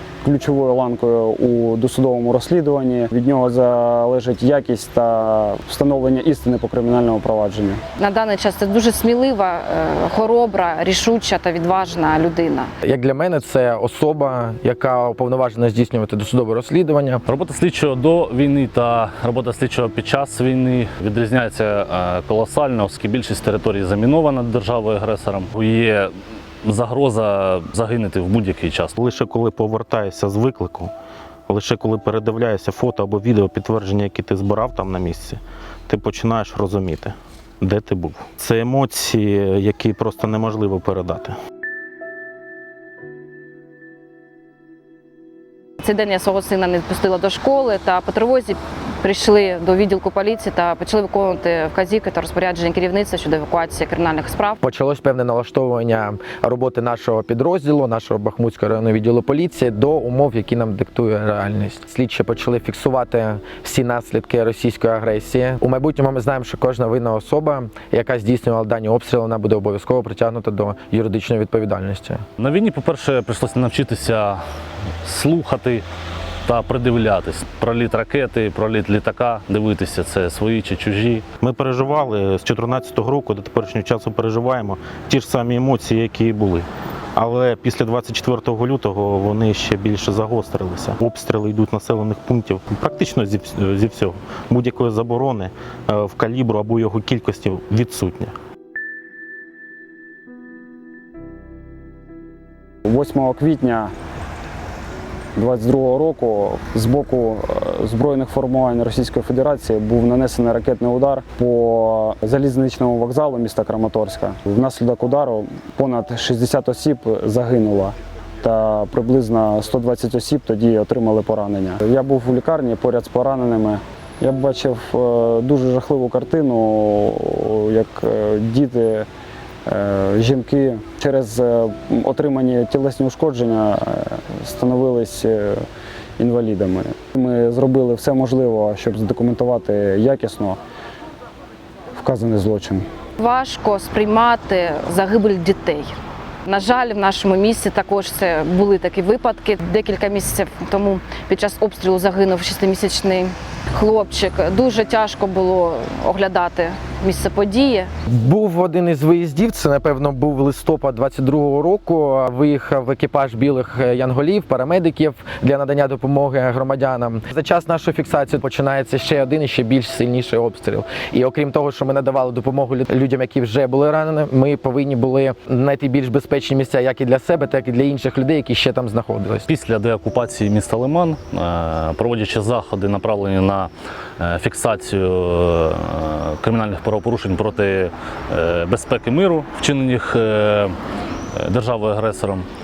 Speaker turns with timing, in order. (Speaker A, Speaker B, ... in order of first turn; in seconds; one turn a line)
Speaker A: 0.2-7.8
Speaker B: 8.0-12.7
Speaker C: 12.8-17.2
Speaker D: 17.3-26.1
Speaker D: 26.6-29.0
Speaker E: 29.0-30.9
Speaker E: 31.5-41.4
Speaker B: 45.8-54.6
Speaker C: 54.6-72.2
Speaker D: 72.4-74.4
Speaker D: 75.0-75.8
Speaker D: 76.4-81.2
Speaker E: 81.4-98.3
Speaker A: 102.9-103.9
Speaker A: 105.3-129.1
Speaker A: 129.7-135.6
Speaker A: 136.2-140.6
Speaker A: 141.9-142.8
Speaker B: 143.2-145.9
Speaker B: 146.4-157.9
Speaker C: 158.1-179.5
Speaker D: 179.5-190.8
Speaker D: 191.3-192.5